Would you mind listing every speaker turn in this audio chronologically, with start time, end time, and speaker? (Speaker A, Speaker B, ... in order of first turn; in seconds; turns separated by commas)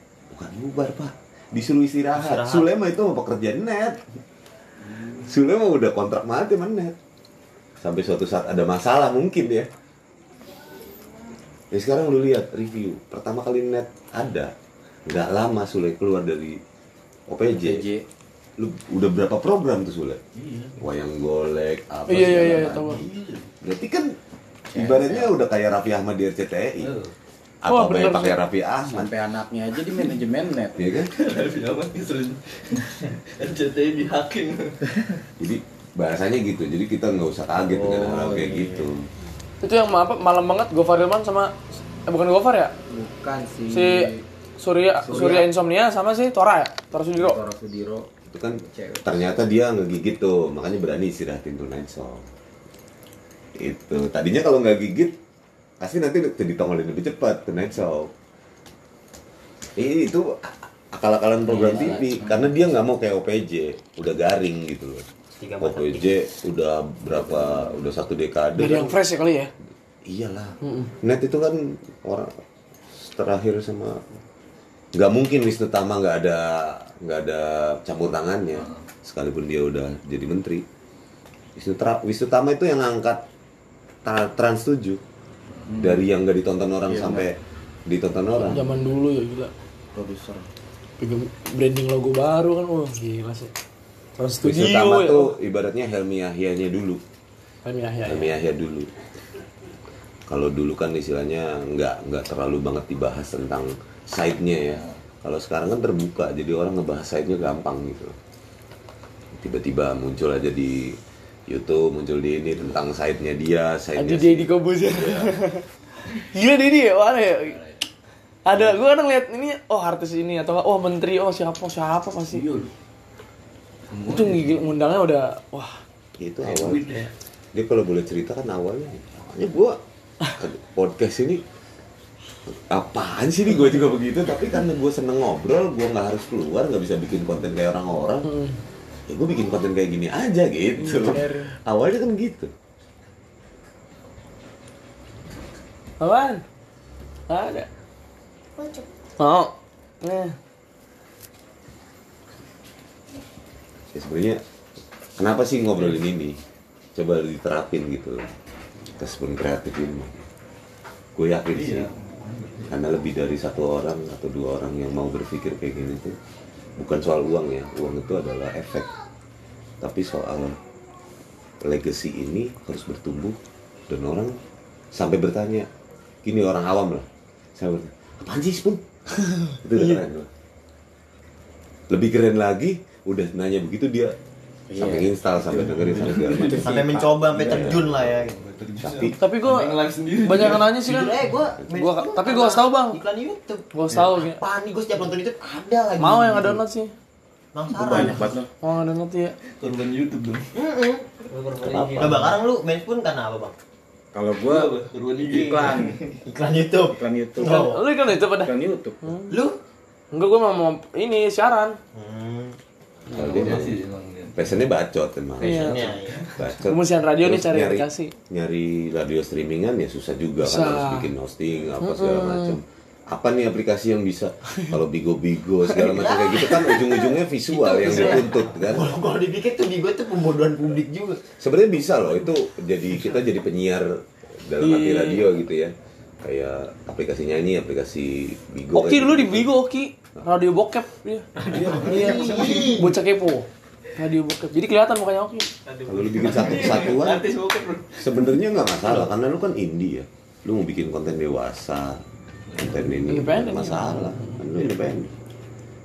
Speaker A: 0.3-4.0, Speaker B: 2.1-2.7, Speaker C: 4.8-5.1, Speaker A: 5.1-7.0, Speaker A: 7.8-9.7, Speaker A: 11.7-14.5, Speaker A: 15.1-16.6, Speaker A: 17.3-17.9, Speaker C: 17.6-18.0, Speaker A: 18.6-20.2, Speaker D: 20.3-20.8, Speaker A: 20.8-23.0, Speaker E: 22.1-23.0, Speaker D: 22.2-23.5, Speaker A: 23.6-24.1, Speaker C: 24.7-25.3, Speaker A: 24.7-26.9, Speaker D: 26.8-27.1, Speaker A: 27.6-29.1, Speaker E: 27.7-28.4, Speaker C: 28.9-30.8, Speaker D: 29.9-30.2, Speaker A: 30.8-31.1, Speaker D: 31.0-35.2, Speaker A: 35.4-39.0, Speaker C: 37.6-38.9, Speaker E: 39.6-41.5, Speaker E: 42.0-42.7, Speaker C: 42.9-44.2, Speaker E: 43.7-47.4, Speaker C: 45.0-45.5, Speaker C: 47.1-48.1, Speaker A: 48.3-52.3, Speaker C: 48.6-49.3, Speaker A: 53.6-55.2, Speaker A: 55.8-58.1, Speaker A: 59.8-65.0, Speaker D: 61.4-62.8, Speaker B: 65.4-66.1, Speaker A: 65.6-69.0, Speaker E: 68.5-69.5, Speaker A: 70.0-72.3, Speaker E: 70.6-70.9, Speaker A: 72.9-74.1, Speaker A: 74.9-80.6, Speaker D: 78.5-78.9, Speaker A: 81.5-83.2, Speaker A: 84.0-85.0, Speaker D: 85.7-86.0, Speaker A: 85.8-87.4, Speaker C: 87.0-87.2, Speaker A: 87.9-88.7, Speaker E: 88.3-89.5, Speaker C: 89.9-90.5, Speaker E: 91.0-93.5, Speaker E: 94.2-95.3, Speaker A: 94.4-97.0, Speaker E: 97.6-98.3, Speaker A: 98.0-98.9, Speaker A: 100.3-108.2, Speaker D: 104.5-105.0, Speaker A: 109.3-115.3, Speaker E: 114.0-115.7, Speaker E: 116.3-117.6, Speaker D: 117.3-117.8, Speaker E: 118.5-122.4, Speaker A: 118.5-118.8, Speaker D: 122.3-122.7, Speaker D: 123.9-124.6, Speaker E: 124.1-125.8, Speaker A: 126.2-127.0, Speaker D: 126.4-127.1, Speaker A: 127.5-129.8, Speaker A: 130.3-131.4, Speaker A: 132.5-138.3, Speaker E: 138.2-138.6, Speaker A: 139.1-142.5, Speaker E: 140.8-141.6, Speaker E: 146.0-146.4, Speaker E: 147.3-147.7, Speaker E: 149.2-150.4, Speaker A: 153.9-154.4, Speaker A: 155.2-156.4, Speaker A: 156.9-158.3, Speaker A: 159.0-160.3, Speaker A: 161.2-161.9, Speaker D: 161.5-162.9, Speaker A: 162.7-166.2, Speaker A: 166.8-168.9, Speaker A: 169.8-170.6, Speaker A: 171.6-173.4, Speaker A: 173.9-174.3, Speaker A: 174.9-175.7, Speaker A: 176.2-178.8, Speaker A: 179.6-180.3, Speaker A: 181.9-184.2, Speaker C: 184.7-187.8, Speaker A: 184.8-186.7, Speaker D: 185.5-186.7, Speaker B: 186.6-188.5, Speaker D: 187.4-191.3, Speaker A: 187.5-187.8, Speaker A: 188.8-189.2, Speaker E: 189.2-189.7, Speaker E: 190.2-191.2, Speaker B: 190.8-196.6, Speaker E: 191.7-193.0, Speaker E: 193.7-194.4, Speaker E: 196.0-196.9, Speaker B: 197.5-198.3, Speaker C: 197.7-198.5, Speaker E: 198.6-199.3, Speaker D: 199.6-200.5, Speaker B: 200.6-203.5, Speaker D: 201.6-202.0, Speaker A: 201.7-202.3, Speaker C: 204.1-206.0, Speaker D: 204.3-206.2, Speaker B: 205.2-205.6, Speaker B: 206.2-207.8, Speaker C: 206.9-209.1, Speaker E: 207.4-209.3, Speaker B: 209.3-209.6, Speaker E: 210.1-211.8, Speaker B: 211.9-212.6, Speaker D: 213.1-214.5, Speaker A: 213.1-213.8, Speaker A: 214.3-228.9, Speaker E: 215.4-215.8, Speaker D: 215.4-216.4, Speaker B: 215.5-216.3, Speaker E: 216.6-218.1, Speaker E: 220.4-221.1, Speaker E: 221.8-222.6, Speaker B: 225.8-231.2, Speaker E: 227.6-228.3, Speaker A: 231.3-239.5, Speaker E: 234.6-235.2, Speaker E: 238.7-245.5, Speaker D: 241.4-242.8, Speaker A: 241.4-242.6, Speaker B: 241.7-242.9, Speaker D: 245.6-248.9, Speaker A: 245.9-247.3, Speaker A: 248.0-252.0, Speaker A: 252.6-255.1, Speaker E: 252.8-254.4